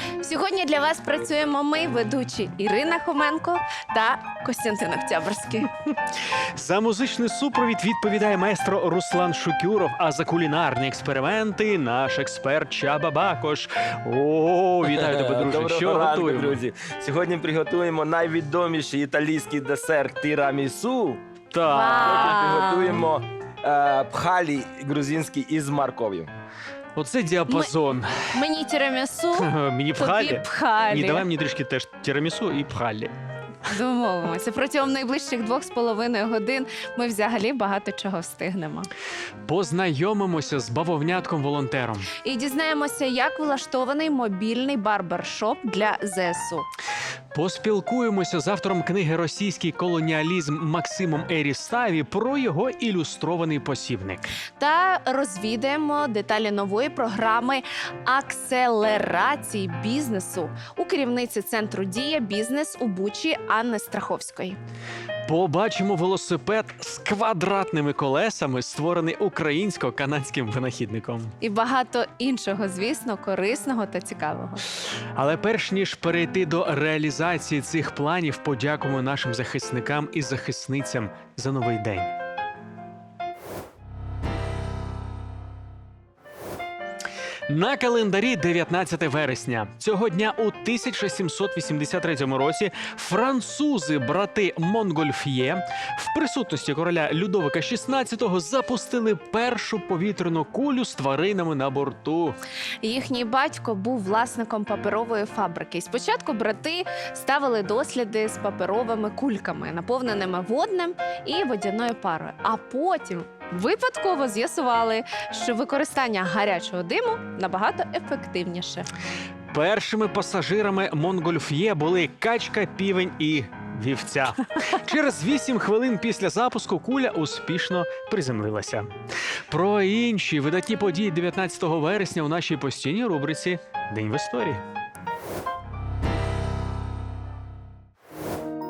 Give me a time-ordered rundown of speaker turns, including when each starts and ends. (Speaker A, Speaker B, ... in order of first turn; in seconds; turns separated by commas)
Speaker A: 0.2-5.7, Speaker B: 6.5-16.6, Speaker C: 14.9-21.2, Speaker B: 21.5-22.5, Speaker A: 21.6-23.0, Speaker C: 22.0-26.3, Speaker B: 26.9-28.1, Speaker A: 28.3-31.2, Speaker B: 29.3-33.1, Speaker A: 33.6-38.9, Speaker B: 39.4-42.1, Speaker A: 42.2-46.6, Speaker B: 47.3-54.3, Speaker A: 54.6-64.6, Speaker B: 65.2-71.3, Speaker A: 71.4-74.6, Speaker B: 75.2-82.1, Speaker B: 87.5-102.4, Speaker A: 102.8-118.9, Speaker B: 119.5-128.9, Speaker B: 129.5-134.6